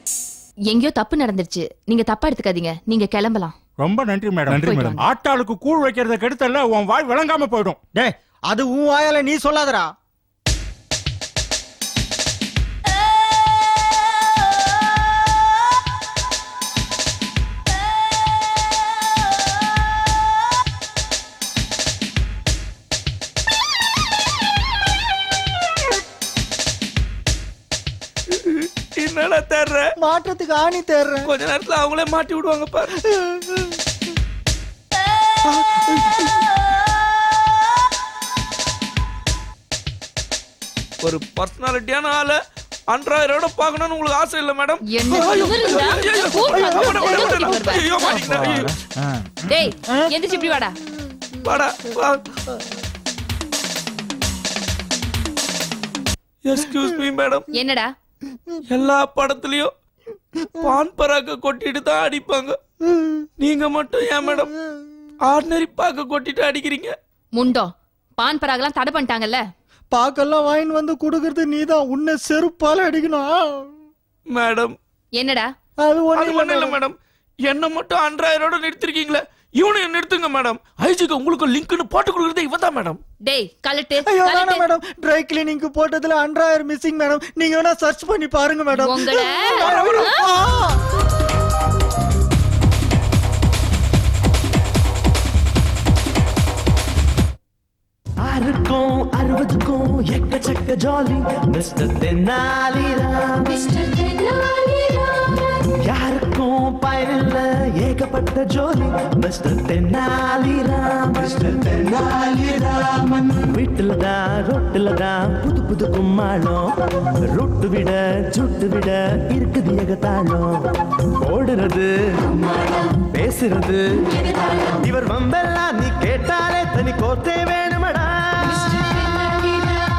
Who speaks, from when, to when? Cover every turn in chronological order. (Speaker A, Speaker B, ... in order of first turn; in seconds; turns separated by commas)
Speaker A: 0.7-3.5, Speaker B: 3.8-7.8, Speaker A: 4.5-5.0, Speaker C: 7.9-9.9, Speaker D: 28.3-29.9, Speaker C: 30.0-31.3, Speaker D: 31.2-33.0, Speaker C: 33.0-33.8, Speaker D: 35.5-36.3, Speaker D: 41.0-42.4, Speaker D: 42.9-48.7, Speaker A: 44.9-48.2, Speaker C: 46.5-50.1, Speaker A: 49.5-50.8, Speaker D: 51.4-52.2, Speaker D: 56.4-57.5, Speaker A: 57.5-57.9, Speaker D: 58.7-59.7, Speaker D: 60.6-62.6, Speaker C: 62.8-63.3, Speaker D: 63.4-64.5, Speaker D: 65.2-66.9, Speaker A: 67.4-69.4, Speaker C: 69.9-73.7, Speaker D: 74.3-74.8, Speaker A: 75.2-75.5, Speaker C: 75.8-76.8, Speaker D: 76.1-76.9, Speaker D: 77.5-83.0, Speaker A: 83.2-84.6, Speaker C: 84.0-90.8, Speaker A: 88.8-90.2, Speaker D: 89.6-89.9, Speaker E: 98.2-103.7, Speaker A: 103.7-105.3, Speaker E: 105.8-116.7, Speaker E: 117.3-120.6, Speaker E: 121.2-128.9